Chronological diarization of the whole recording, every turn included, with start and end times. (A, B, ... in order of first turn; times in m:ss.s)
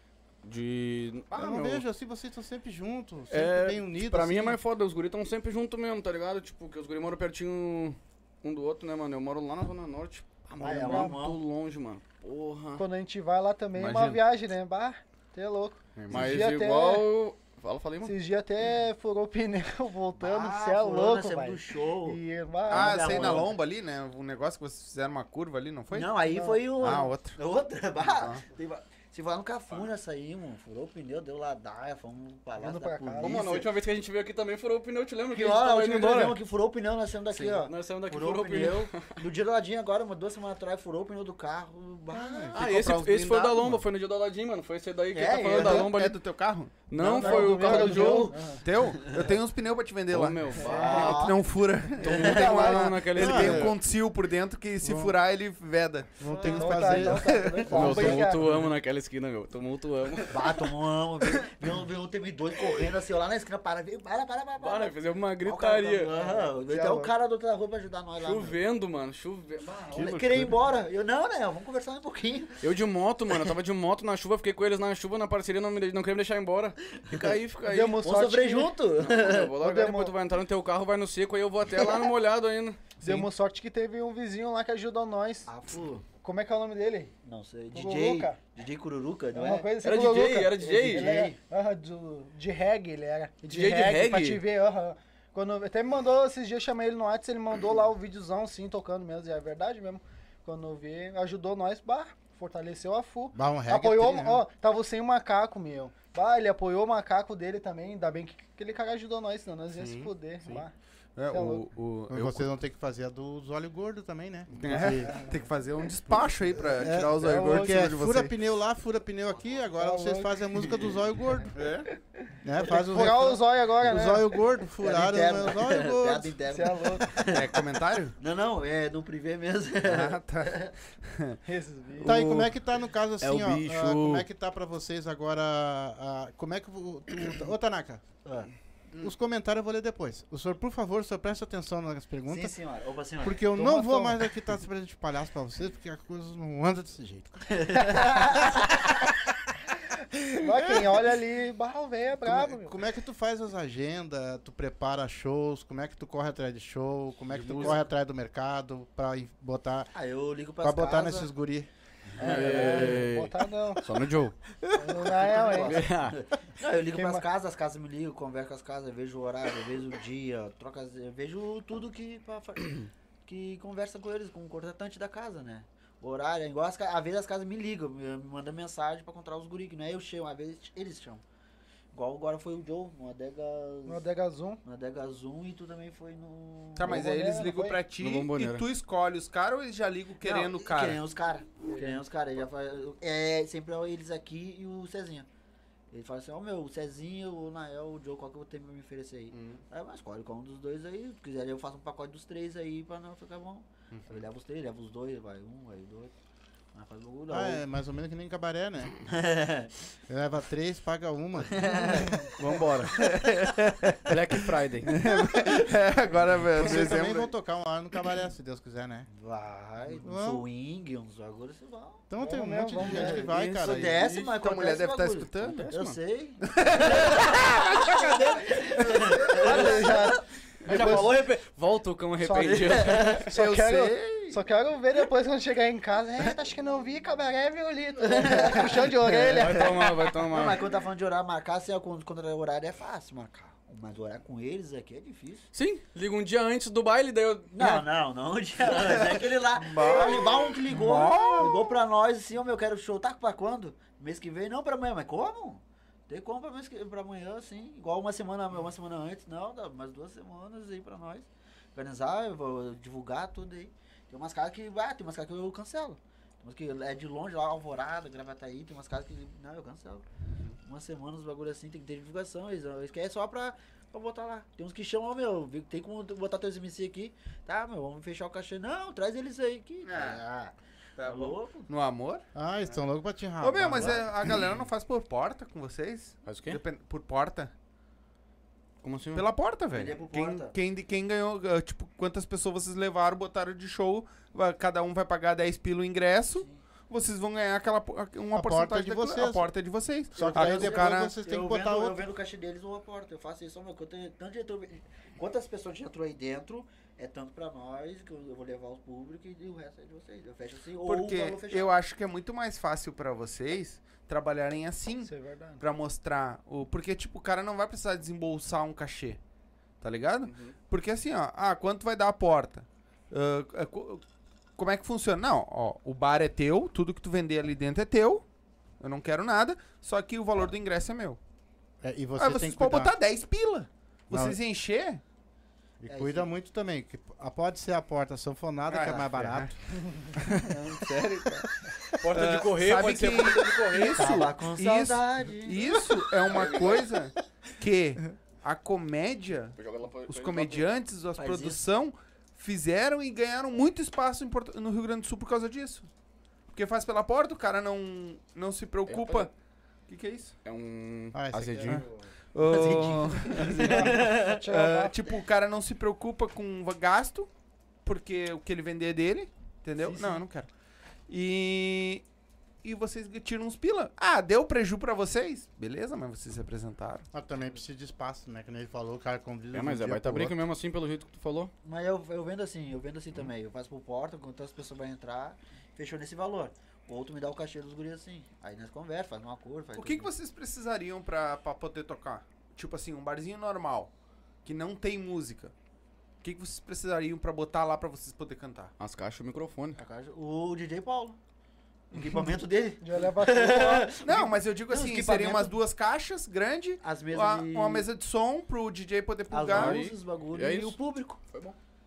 0:00.4-0:01.8 A
0:01.3-0:04.6 B
0:03.3-0:12.8 A
0:10.6-0:11.2 C
0:10.6-0:11.4 D
0:12.8-0:17.1 C
0:13.8-0:14.2 E
0:16.0-0:16.3 E
0:16.1-0:18.1 A
0:18.0-0:23.4 C
0:20.2-0:23.6 D
0:22.7-0:26.1 E
0:25.9-0:33.7 D
0:26.3-0:27.0 C
0:26.8-0:27.4 E
0:28.2-0:28.4 E
0:32.6-0:33.6 C
0:33.2-0:36.4 A
0:35.3-0:42.6 D
0:37.3-0:39.1 A
0:42.1-0:42.6 B
0:42.5-0:43.8 E
0:42.5-0:46.2 A
0:45.1-0:45.9 D
0:45.5-0:46.7 E
0:46.9-0:48.3 A
0:47.0-0:48.5 D
0:47.1-0:48.6 C
0:48.6-0:57.4 E
0:50.1-0:51.3 A
0:50.6-0:51.1 C
0:50.6-0:51.4 D
0:52.0-0:52.8 D
0:52.0-0:53.8 A
0:52.5-0:52.9 C
0:53.1-0:53.8 B
0:54.8-0:55.1 B
0:56.2-0:58.2 B
0:56.4-0:58.2 D
0:56.4-0:58.7 C
0:57.7-1:00.7 A
1:00.3-1:08.6 D
1:04.6-1:06.1 A
1:06.2-1:07.1 C
1:08.2-1:10.4 A
1:09.9-1:12.6 D
1:10.0-1:10.5 E
1:12.6-1:18.0 A
1:17.6-1:18.8 C
1:18.0-1:19.5 D
1:19.0-1:22.9 A
1:19.6-1:20.1 C
1:23.0-1:25.5 C
1:25.4-1:26.0 D
1:26.2-1:27.1 C
1:27.2-1:29.7 D
1:27.7-1:28.4 C
1:29.3-1:50.7 C
1:29.8-1:31.1 A
1:30.6-1:31.4 D
1:33.5-1:34.4 A
1:43.3-1:44.4 B
1:49.8-1:50.6 E
1:51.2-1:52.5 E
1:51.3-1:51.7 C
1:52.1-1:55.2 B
1:54.5-1:58.4 E
1:54.9-1:55.3 C
1:56.6-2:01.5 B
1:57.2-1:57.9 C
1:59.7-2:00.8 C
2:01.5-2:01.9 E
2:01.9-2:04.4 C
2:02.4-2:06.4 B
2:04.8-2:07.6 D
2:06.5-2:07.2 C
2:07.3-2:08.1 E
2:08.2-2:10.7 D
2:09.8-2:11.4 E
2:11.4-2:12.2 C
2:12.0-2:12.5 A
2:12.0-2:18.0 B
2:13.2-2:14.2 A
2:18.2-2:18.5 D
2:19.0-2:22.5 B
2:22.3-2:23.5 D
2:23.2-2:28.1 B
2:23.5-2:24.2 C
2:27.5-2:28.7 D
2:30.3-2:32.7 C
2:30.4-2:31.0 B
2:32.2-2:39.9 B
2:37.3-2:37.8 A
2:39.9-2:41.3 D
2:40.6-2:41.7 B
2:42.2-2:43.9 C
2:42.2-2:44.4 A
2:42.2-2:42.9 D
2:44.7-2:45.9 C
2:45.0-3:01.2 D
2:45.5-2:46.2 A
2:46.9-2:47.2 C
3:01.9-3:04.0 D
3:03.8-3:04.6 C
3:04.6-3:07.0 D
3:06.8-3:11.0 E
3:06.8-3:07.8 C
3:08.0-3:08.6 A
3:10.2-3:15.3 D
3:15.9-3:26.1 D
3:19.3-3:19.6 E
3:23.9-3:24.2 E
3:26.7-3:27.6 D
3:27.3-3:29.0 B
3:29.0-3:29.7 D
3:30.1-3:32.2 B
3:31.5-3:32.4 D
3:32.4-3:33.1 A
3:33.0-3:34.1 E
3:34.0-3:34.9 A
3:34.8-3:37.3 E
3:35.3-3:35.6 B
3:36.5-3:39.1 B
3:39.1-3:42.0 D
3:40.0-3:40.4 B
3:42.1-3:44.0 B
3:42.2-3:43.3 C
3:42.8-3:51.1 D
3:44.3-3:45.7 E
3:45.4-3:45.9 A
3:46.4-3:49.6 E
3:49.3-3:51.3 C
3:50.6-3:53.3 A
3:52.2-3:59.8 C
3:52.4-3:53.2 D
3:53.3-3:54.4 E
3:58.0-4:05.5 D
3:59.3-4:00.6 A
4:05.5-4:07.8 A
4:07.5-4:30.0 D
4:08.8-4:11.7 E
4:11.0-4:11.5 C
4:30.6-4:41.7 D
4:39.8-4:40.2 E
4:41.0-4:42.2 E
4:42.3-4:44.4 B
4:43.4-4:47.5 E
4:46.2-4:46.6 A
4:48.8-4:49.3 A
4:49.1-5:01.2 E
4:49.7-4:50.5 D
4:56.4-4:56.6 D
4:58.3-4:59.5 B
5:00.1-5:02.0 B
5:00.1-5:11.7 D
5:10.8-5:19.2 E
5:15.0-5:15.6 C
5:19.8-5:24.0 E
5:20.2-5:20.6 A
5:24.6-5:28.2 E
5:28.8-5:31.2 E
5:31.8-5:32.9 B
5:32.2-5:35.0 E
5:34.1-5:34.4 B
5:35.8-5:39.6 B
5:35.9-5:36.3 D
5:38.7-5:39.5 E
5:40.1-5:41.4 E
5:42.0-5:44.1 A
5:42.1-5:55.9 E
5:43.9-5:45.7 D
5:46.2-5:46.9 A
5:49.6-5:50.7 A
5:51.2-5:51.6 D
5:56.5-5:59.3 E
5:58.9-5:59.3 A
5:59.9-6:00.3 E
6:00.4-6:01.8 A
6:01.1-6:01.9 B
6:01.7-6:07.3 E
6:02.4-6:04.4 D
6:02.6-6:05.0 C
6:07.8-6:10.5 E
6:09.8-6:10.2 D
6:11.1-6:12.0 E
6:12.6-6:17.1 E
6:17.1-6:20.4 B
6:19.5-6:21.5 A
6:21.6-6:30.1 D
6:29.8-6:33.9 E
6:34.4-6:35.5 E
6:36.2-6:38.7 E
6:38.8-6:39.8 A
6:39.8-6:41.2 D
6:41.9-6:45.6 D
6:42.8-6:44.0 C
6:44.0-6:49.8 E
6:46.8-6:47.9 D
6:49.3-6:51.2 D
6:49.5-6:51.6 A